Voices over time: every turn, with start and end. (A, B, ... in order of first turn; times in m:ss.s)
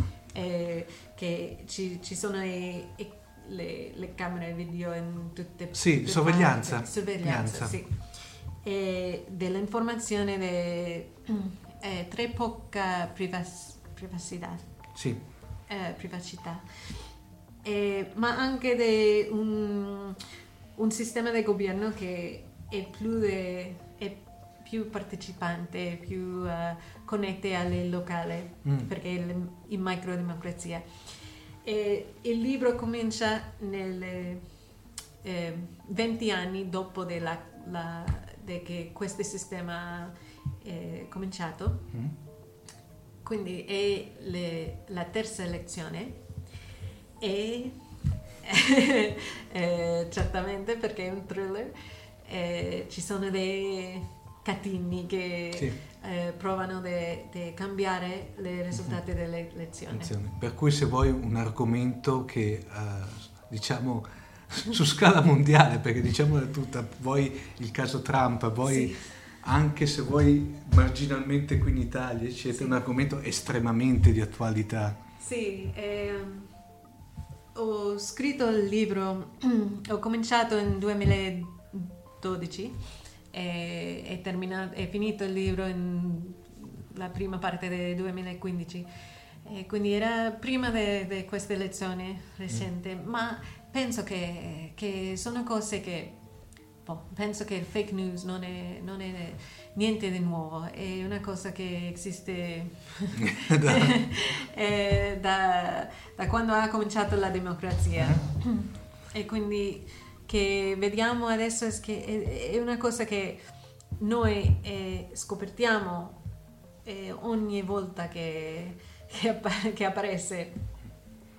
0:00.3-0:14.7 A
0:05.7-0:07.8 B
0:15.0-0:15.2 B
0:15.7-0:17.1 A
0:17.6-0:20.2 A
0:20.8-0:30.9 A
0:31.6-0:34.5 A
0:35.2-0:41.9 A
0:43.2-0:46.2 A
0:47.2-1:00.2 A
0:58.7-0:59.0 B
0:59.9-1:15.0 B
1:08.6-1:09.2 A
1:12.5-1:12.8 A
1:15.2-1:16.6 A
1:17.5-1:22.8 A
1:23.3-1:28.9 A
1:29.4-1:36.2 A
1:36.8-1:53.4 A
1:43.2-1:43.9 B
1:48.0-1:48.3 B
1:54.0-1:56.2 A
1:56.8-2:00.6 A